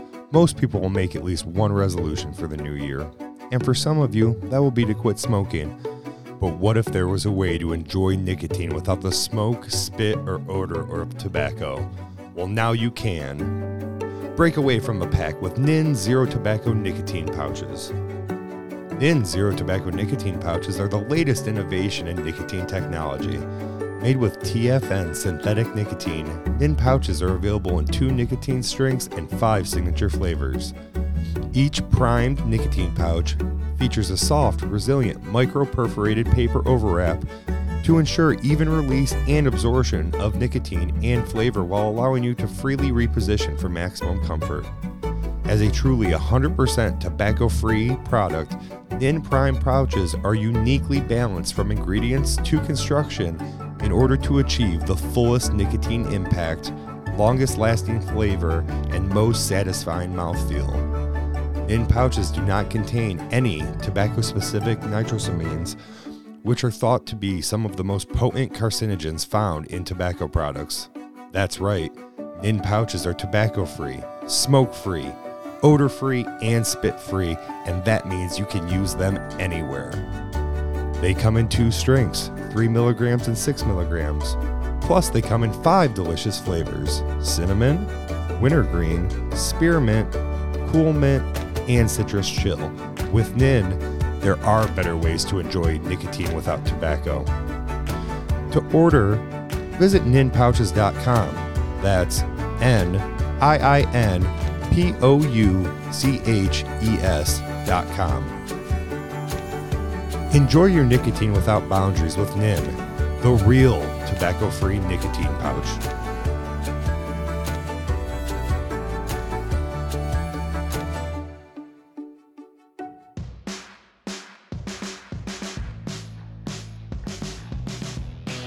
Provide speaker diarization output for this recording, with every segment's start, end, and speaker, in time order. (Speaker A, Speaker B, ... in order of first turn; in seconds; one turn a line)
Speaker A: 0.3-5.8
Speaker A: 6.4-13.6
Speaker A: 14.3-17.9
Speaker A: 18.9-23.4
Speaker A: 24.0-30.7
Speaker A: 31.5-37.2
Speaker A: 37.8-44.7
Speaker A: 45.5-60.9
Speaker A: 61.6-65.7
Speaker A: 66.4-80.0
Speaker A: 81.0-97.3
Speaker A: 98.5-108.4
Speaker A: 110.3-115.8